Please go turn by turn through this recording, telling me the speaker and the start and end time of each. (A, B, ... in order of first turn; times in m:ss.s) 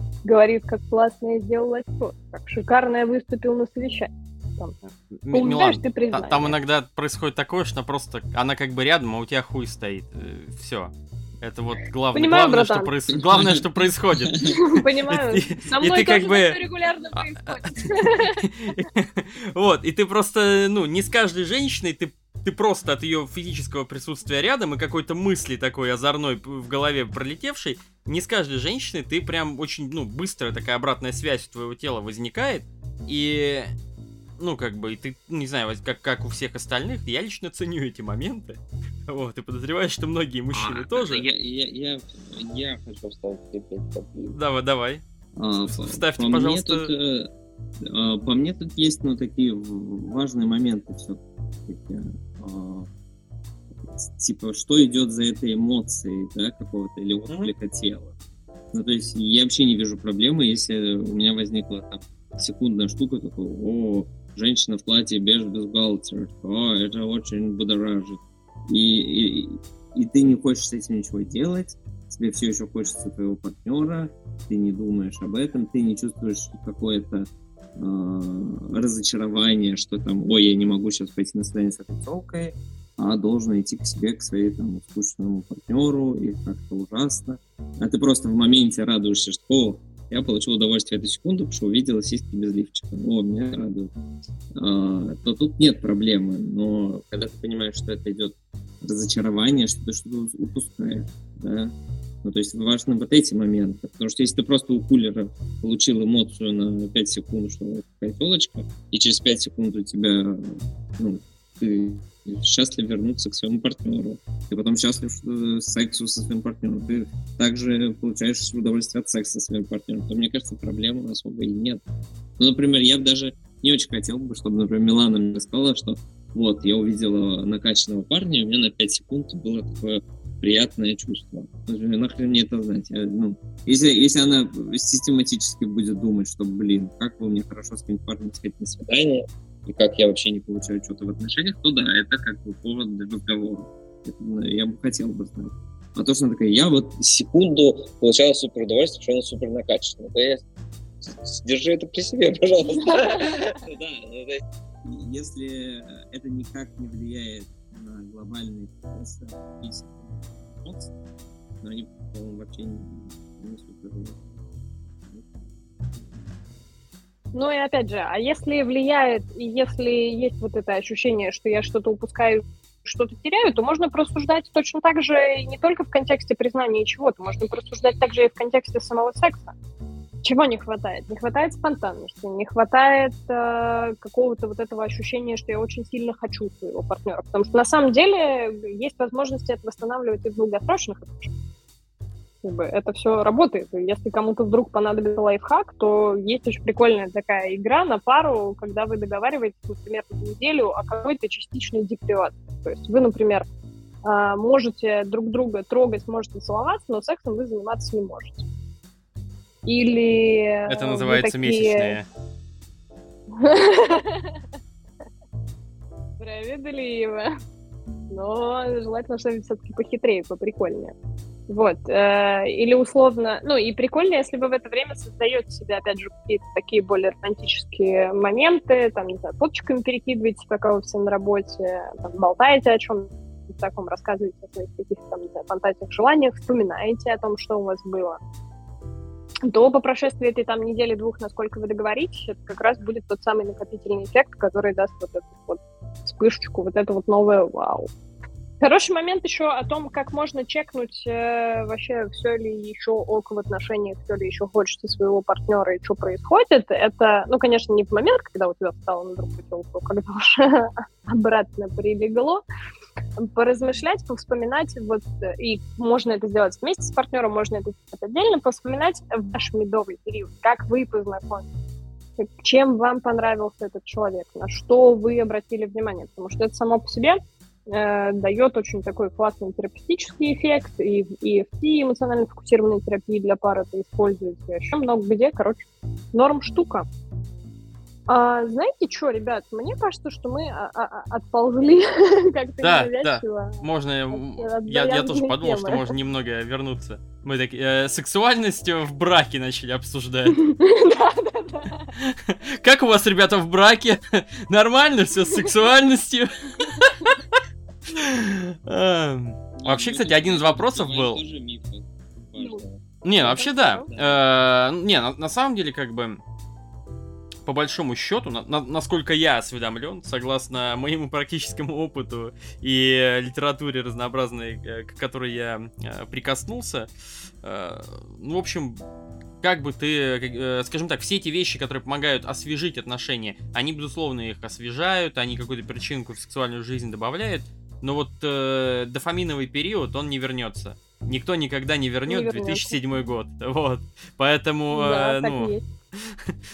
0:00.2-0:06.6 A
0:05.2-0:16.6 B
0:12.1-0:12.9 A
0:13.3-0:13.6 C
0:14.5-0:18.4 A
0:17.1-0:33.7 B
0:34.4-0:41.2 B
0:40.5-0:44.4 C
0:44.3-0:45.0 B
0:45.4-0:47.3 C
0:45.6-0:46.9 B
0:47.8-0:52.9 C
0:53.9-0:58.1 C
0:58.7-1:33.9 C
1:34.5-1:41.7 C
1:42.2-2:01.8 C
2:02.4-2:30.4 C
2:31.0-2:40.9 C
2:33.0-2:33.4 A
2:41.6-2:44.2 C
2:47.3-2:59.5 A
3:00.2-3:11.3 A
3:12.4-3:23.5 A
3:24.0-3:28.4 A
3:29.6-3:32.0 A
3:30.7-3:32.0 B
3:33.3-3:34.4 A
3:36.2-3:37.3 A
3:38.1-3:40.9 A
3:41.5-3:58.2 A
3:59.4-4:07.9 A
4:08.6-4:22.4 A
4:23.2-4:31.5 A
4:32.2-4:46.8 A
4:48.1-4:55.9 A
4:52.6-5:00.4 B
5:00.4-5:01.9 A
5:02.0-5:07.4 B
5:07.9-5:11.2 B
5:09.6-5:14.2 C
5:12.4-5:13.9 A
5:13.0-5:16.2 B
5:17.4-5:26.9 B
5:27.4-5:28.8 B
5:29.4-5:46.3 B
5:42.1-5:42.8 A
5:44.7-5:45.6 A